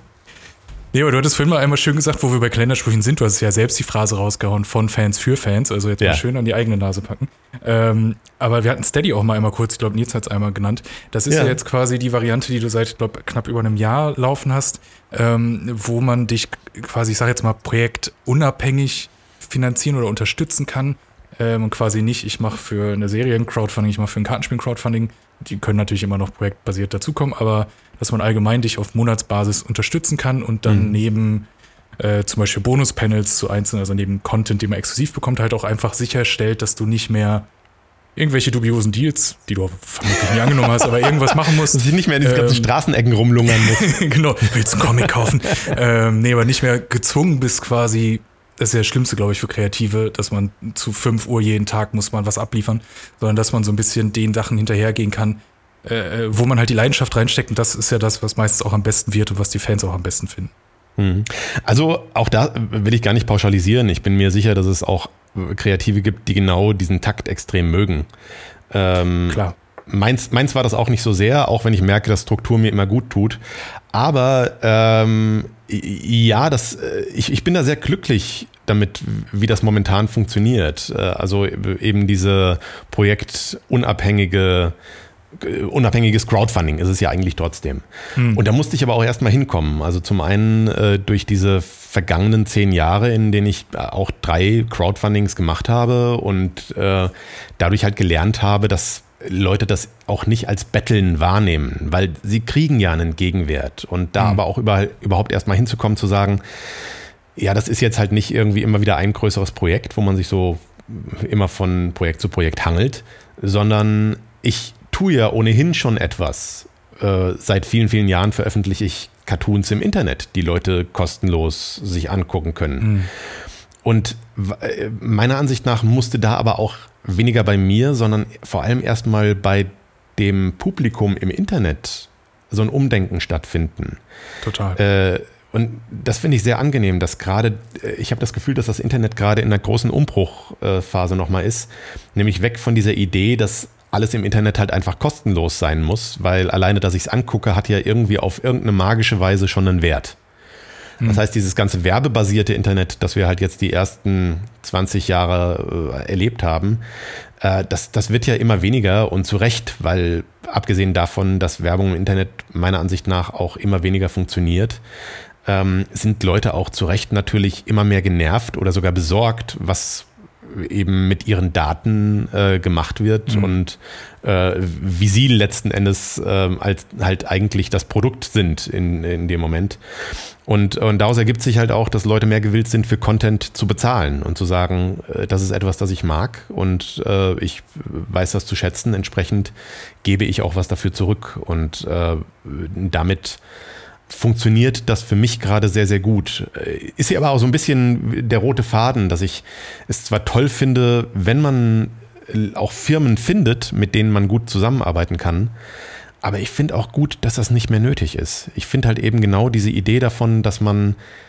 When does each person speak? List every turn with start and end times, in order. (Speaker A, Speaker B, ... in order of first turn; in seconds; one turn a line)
Speaker A: 0.9-31.5
Speaker B: 11.3-11.6
Speaker B: 30.7-31.0
Speaker A: 32.0-37.5
Speaker A: 38.2-42.7
Speaker B: 40.6-44.0
Speaker A: 43.5-60.5
Speaker B: 44.8-45.1
Speaker B: 61.0-68.1
Speaker B: 68.7-73.4
Speaker A: 69.3-69.5
Speaker B: 73.9-84.8
Speaker B: 85.3-106.4
Speaker A: 88.2-88.4
Speaker B: 107.4-123.1
Speaker A: 122.8-123.1
Speaker B: 123.8-134.0
Speaker A: 134.4-134.8
Speaker B: 134.8-150.2
Speaker B: 151.0-156.8
Speaker B: 157.4-164.8
Speaker B: 165.5-179.8
Speaker A: 173.3-173.5
Speaker B: 180.4-193.4
Speaker B: 194.1-205.5
Speaker B: 206.2-211.0